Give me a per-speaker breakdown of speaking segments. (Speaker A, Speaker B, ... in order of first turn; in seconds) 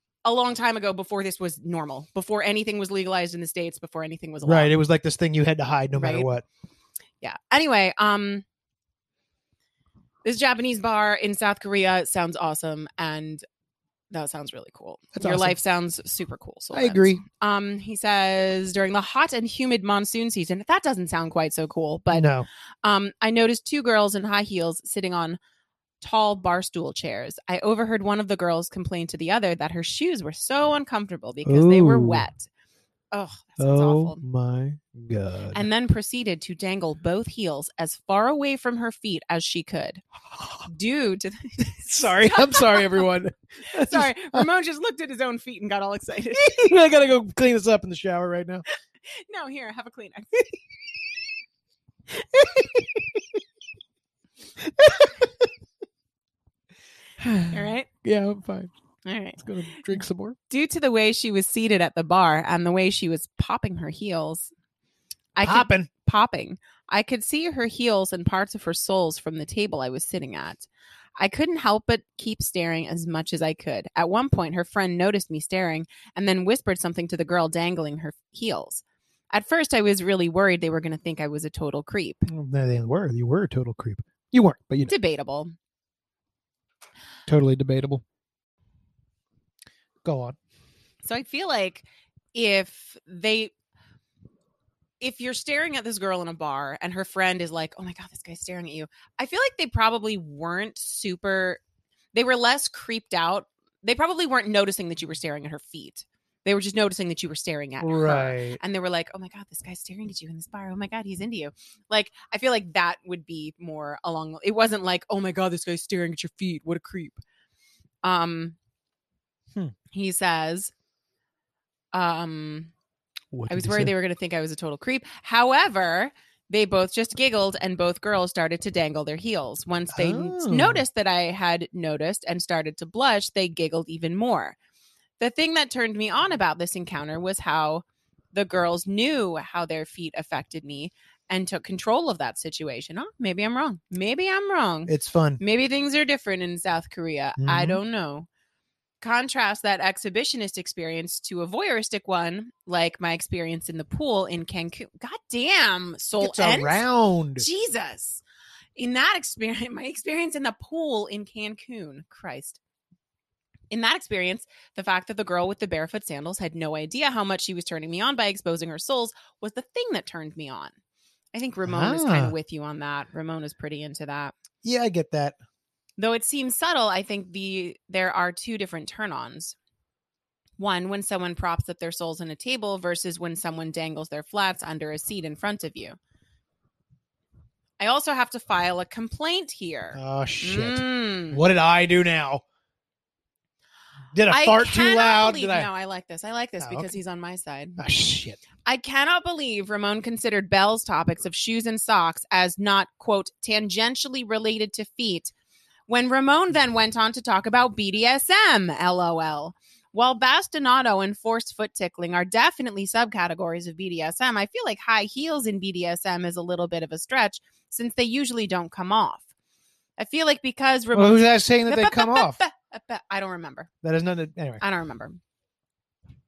Speaker A: 0.2-4.7, 5.9-6.3, 7.2-8.4, 10.2-13.4, 14.1-22.3, 22.8-25.4, 26.0-32.5, 33.1-34.2, 35.5-40.0, 40.7-43.1, 43.7-46.7, 49.1-50.5, 57.5-57.9, 59.0-59.4, 60.5-64.5, 65.3-70.7, 71.2-82.2, 84.9-85.5, 91.0-93.5, 95.0-101.6, 102.1-117.2, 118.0-118.5, 119.9-120.7, 121.9-122.7, 123.5-134.6, 135.2-148.3, 149.0-156.8, 157.4-158.2, 158.8-162.6, 163.7-170.7, 171.3-174.3, 176.0-179.6, 180.6-185.9, 187.8-191.4, 194.3-197.8, 198.6-205.3, 205.9-219.2, 220.0-223.7, 224.6-225.2
Speaker B: 4.4-6.4, 15.1-15.6, 16.7-17.2, 22.1-22.5, 31.4-32.3, 33.6-35.6, 40.3-40.6, 41.8-44.5, 46.3-48.6, 52.3-53.2, 54.6-55.5, 57.2-58.7, 59.4-60.4, 65.4-65.9, 82.3-84.9, 87.3-88.0, 90.0-90.4, 107.8-108.6, 123.3-123.9, 129.9-130.8, 144.9-145.4, 147.4-147.8, 156.2-157.4, 171.6-172.3, 174.6-175.3, 189.9-192.4, 194.1-195.7, 196.6-196.9, 197.8-198.4, 220.9-222.4, 223.8-224.6